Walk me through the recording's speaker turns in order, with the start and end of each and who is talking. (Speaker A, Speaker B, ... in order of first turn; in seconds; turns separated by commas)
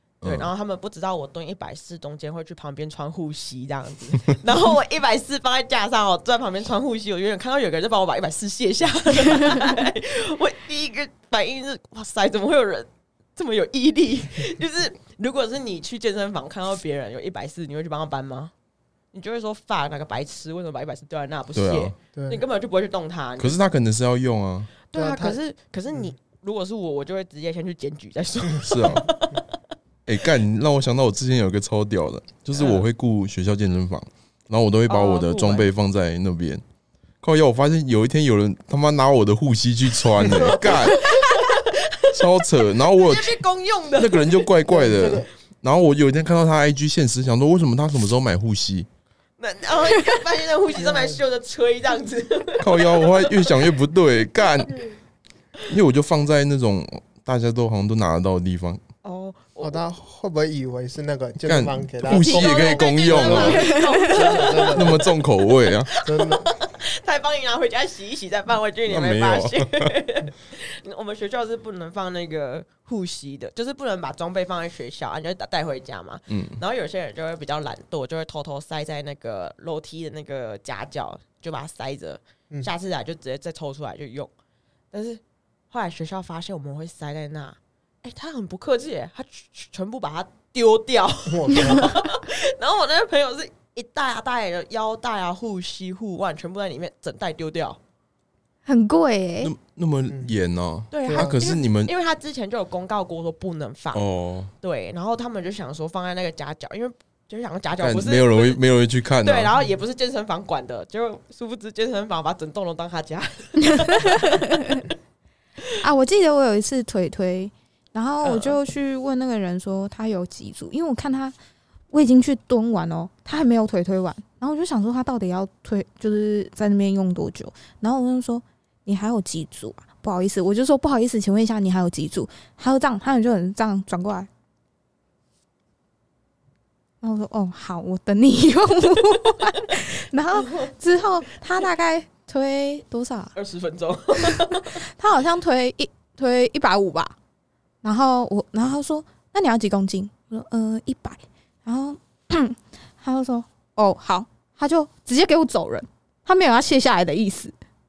Speaker A: 0.2-0.5, Speaker B: 0.2-18.5, Speaker B: 19.1-23.6, Speaker A: 21.5-21.9, Speaker C: 22.1-22.4, Speaker A: 23.4-24.7, Speaker B: 24.8-29.4, Speaker C: 24.9-25.4, Speaker A: 28.6-29.1, Speaker A: 30.1-36.6, Speaker B: 32.5-32.9, Speaker B: 34.9-35.7, Speaker A: 37.2-41.2, Speaker B: 40.1-45.2, Speaker A: 42.1-43.4, Speaker A: 44.0-48.9, Speaker C: 44.7-45.3, Speaker B: 49.4-53.7, Speaker C: 50.8-51.2, Speaker A: 52.6-54.8, Speaker A: 55.6-58.8, Speaker B: 59.0-59.8, Speaker C: 59.6-65.0, Speaker A: 61.4-63.8, Speaker B: 62.1-65.2, Speaker D: 63.7-64.0, Speaker A: 64.4-65.9, Speaker B: 65.9-84.3, Speaker C: 66.0-66.5, Speaker A: 68.9-69.9, Speaker A: 76.3-76.6, Speaker B: 84.9-97.8, Speaker C: 91.2-92.0, Speaker D: 98.6-99.5, Speaker A: 99.4-101.9, Speaker B: 100.9-104.0, Speaker C: 101.1-101.4, Speaker A: 103.9-104.5, Speaker B: 104.6-108.6, Speaker A: 107.8-109.5, Speaker B: 109.2-114.4, Speaker D: 113.7-114.8, Speaker D: 115.8-121.3, Speaker B: 118.2-118.6, Speaker D: 121.9-134.3, Speaker D: 137.0-143.3, Speaker B: 143.3-144.8, Speaker D: 144.2-147.1, Speaker D: 147.8-157.5